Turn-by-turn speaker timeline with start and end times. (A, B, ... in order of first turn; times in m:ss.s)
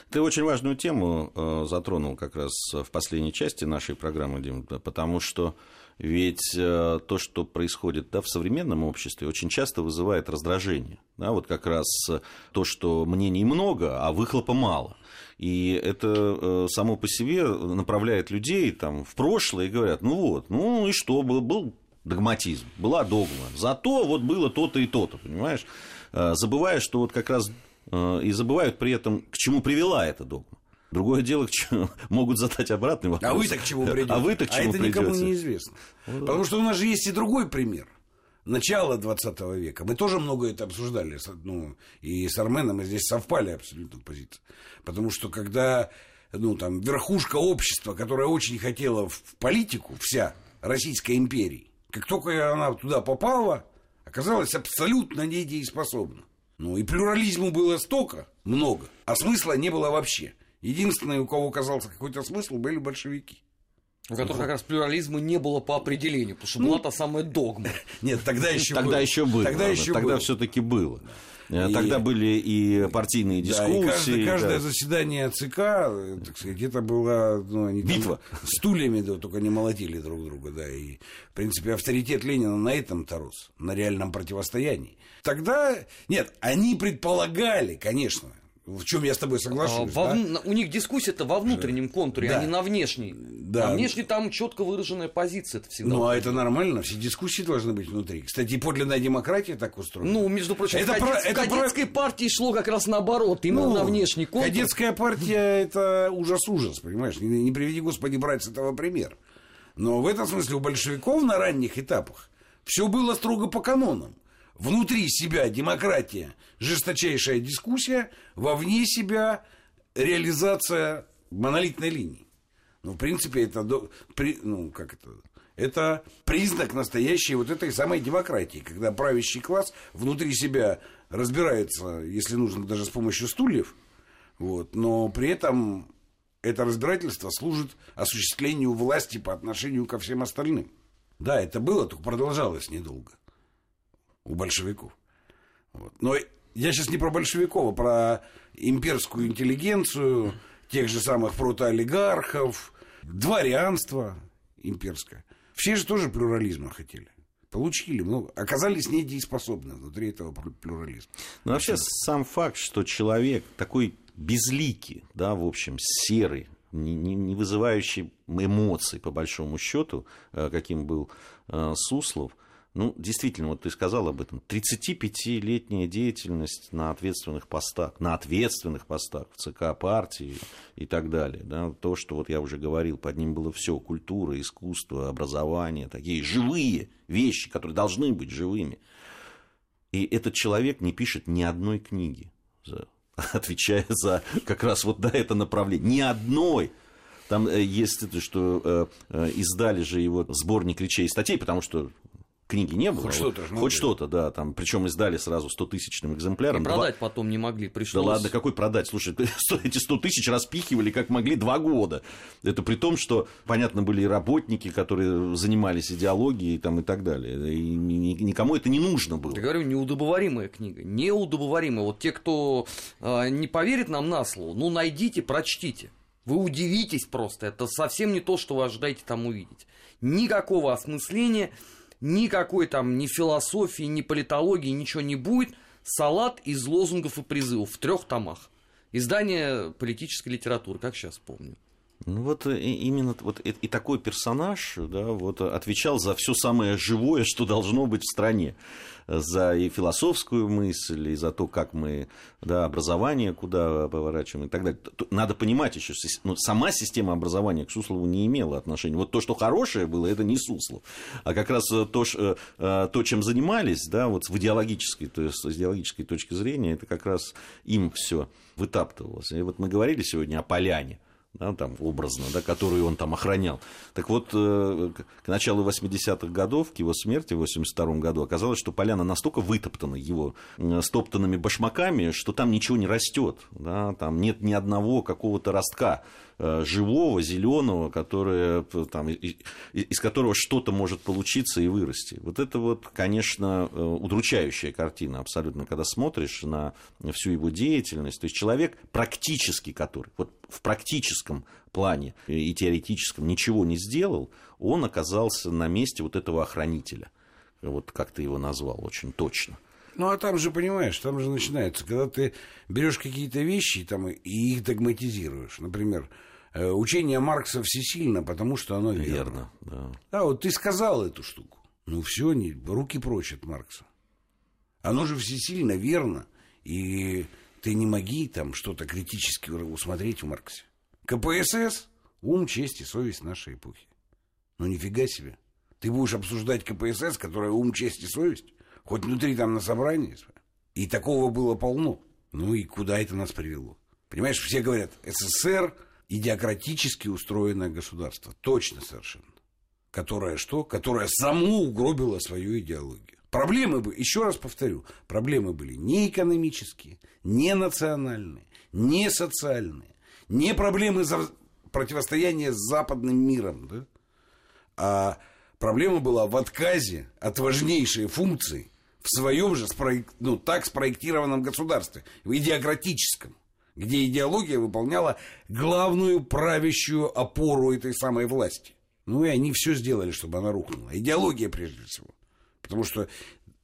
0:00.1-0:35.3 A
0:33.2-0:37.9 B
0:36.1-0:36.4 A
0:38.5-1:03.4 B
1:04.1-1:07.8 C
1:04.2-1:04.5 B
1:07.8-1:10.3 B
1:08.6-1:14.6 A
1:11.6-1:12.0 B
1:13.4-1:30.2 B
1:17.8-1:18.6 A
1:29.6-1:36.4 C
1:32.2-1:32.5 B
1:33.2-1:34.0 B
1:35.8-1:41.8 B
1:40.0-1:44.7 C
1:43.5-1:49.2 B
1:49.8-1:59.4 B
2:00.0-2:02.2 B
2:02.8-2:13.8 B
2:14.4-2:15.9 B
2:16.4-2:23.2 B
2:24.2-2:25.0 B
2:25.8-2:41.9 B
2:41.4-3:08.8 A
3:09.9-3:16.7 A
3:17.3-3:21.9 A
3:22.5-3:26.9 A
3:23.0-3:23.9 B
3:26.5-3:28.3 C
3:27.9-3:39.4 A
3:39.3-4:01.6 C
4:02.1-4:08.6 A
4:09.1-5:07.1 A
5:07.6-5:09.6 A
5:10.0-5:19.4 B
5:19.0-5:20.0 A
5:20.1-5:23.9 B
5:24.8-5:33.9 B
5:34.6-5:49.3 B
5:49.9-6:03.9 B
6:04.8-6:23.1 B